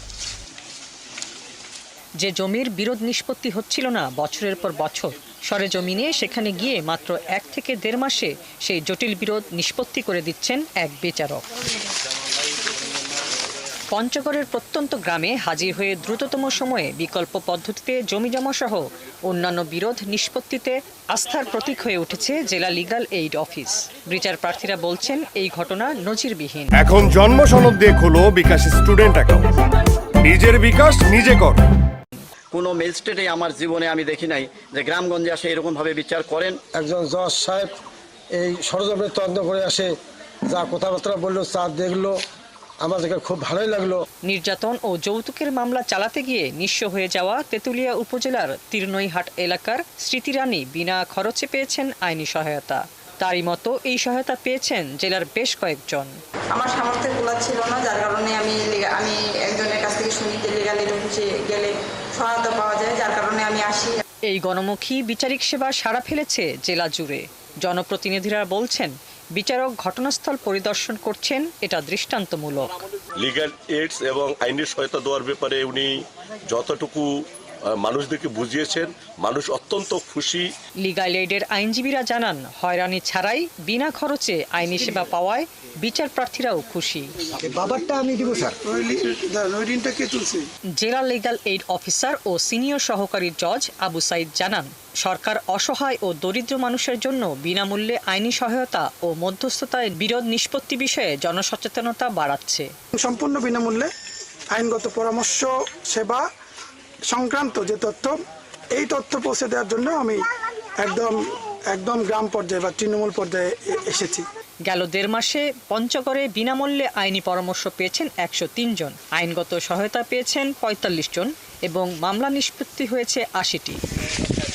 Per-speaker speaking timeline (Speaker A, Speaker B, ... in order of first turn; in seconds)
Speaker A: 2.2-11.4, 13.9-26.7, 44.2-56.1, 64.3-72.7, 80.8-87.1, 90.8-102.7, 114.6-123.8
Speaker B: 26.7-29.6, 30.2-31.6
Speaker C: 32.5-36.6
Speaker D: 36.7-37.8, 38.4-39.9, 40.5-42.2, 42.8-44.0, 87.4-88.5
Speaker E: 56.5-64.0
Speaker F: 73.2-76.0, 76.5-77.1, 77.8-80.5
Speaker G: 88.6-90.4, 103.0-103.9, 104.5-106.2, 107.1-108.2, 108.7-110.2, 110.8-111.1, 111.7-114.2